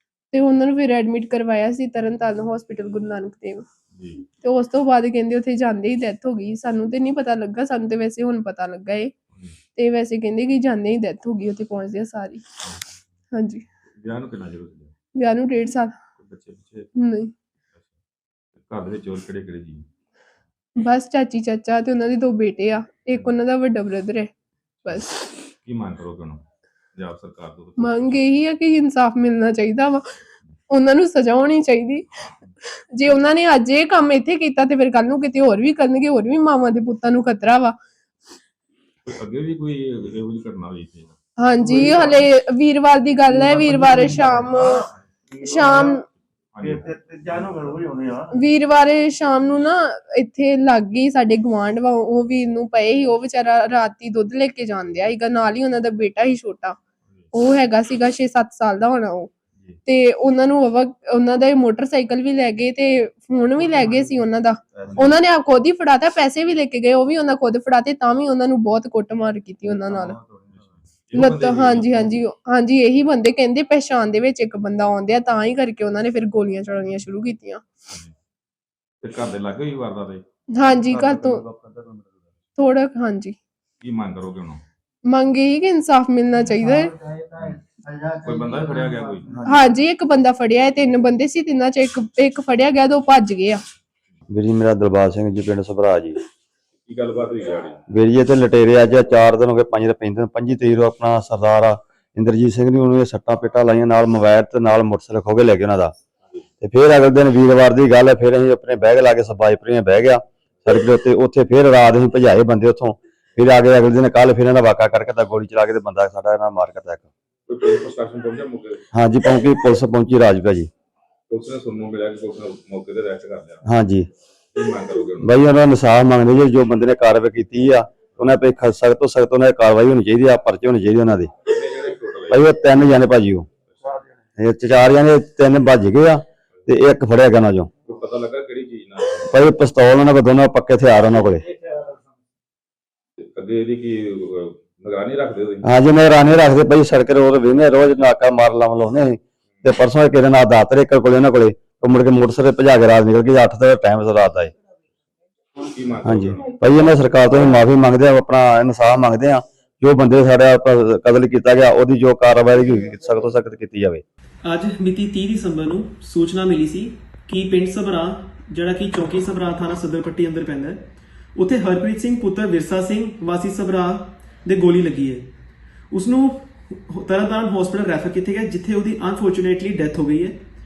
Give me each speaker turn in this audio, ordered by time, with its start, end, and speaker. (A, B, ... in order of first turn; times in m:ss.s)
0:00.3-0:03.7 A
0:04.0-0:04.2 B
0:04.4-0:09.1 A
0:09.8-0:12.4 A
0:13.3-0:13.6 A
0:14.0-0:14.9 B
0:15.2-0:15.9 A
0:16.2-0:16.9 B
0:17.0-0:17.3 A
0:18.6-0:19.9 B
0:20.8-0:24.3 A
0:24.9-0:25.2 A
0:25.6-0:26.4 B
0:27.0-0:28.2 B
0:27.8-0:30.2 A
0:30.7-0:32.1 A
0:32.9-0:37.8 A
0:39.0-0:41.2 B
0:41.4-0:44.8 A
0:41.7-0:42.2 C
0:43.3-0:44.7 C
0:45.4-0:45.9 C
0:45.4-0:46.0 A
0:46.5-0:47.9 B
0:46.6-0:48.3 C
0:48.4-0:56.8 A
0:57.3-0:59.3 A
0:59.9-1:10.2 A
1:04.9-1:05.2 B
1:10.5-1:12.2 B
1:11.2-1:17.6 A
1:17.9-1:18.1 B
1:19.0-1:20.2 B
1:20.6-1:21.4 A
1:21.0-1:22.0 C
1:22.6-1:23.4 A
1:23.8-1:24.6 B
1:25.1-1:26.9 A
1:26.6-1:29.6 C
1:27.4-1:27.6 B
1:28.2-1:29.4 B
1:29.5-1:33.6 A
1:34.3-1:36.2 D
1:36.8-1:37.8 B
1:37.9-1:45.9 D
1:46.6-1:57.1 D
1:57.5-1:58.8 B
1:58.9-2:00.7 D
2:01.3-2:03.6 B
2:03.7-2:04.1 D
2:04.5-2:05.4 B
2:05.2-2:11.3 D
2:11.5-2:12.5 B
2:12.3-2:13.5 D
2:14.4-2:17.7 D
2:17.8-2:19.4 B
2:19.3-2:21.5 D
2:23.3-2:25.8 B
2:25.6-2:34.5 D
2:35.6-2:37.0 B
2:36.0-2:44.0 D
2:44.4-2:50.8 E
2:51.4-2:55.3 E
2:55.9-3:00.4 E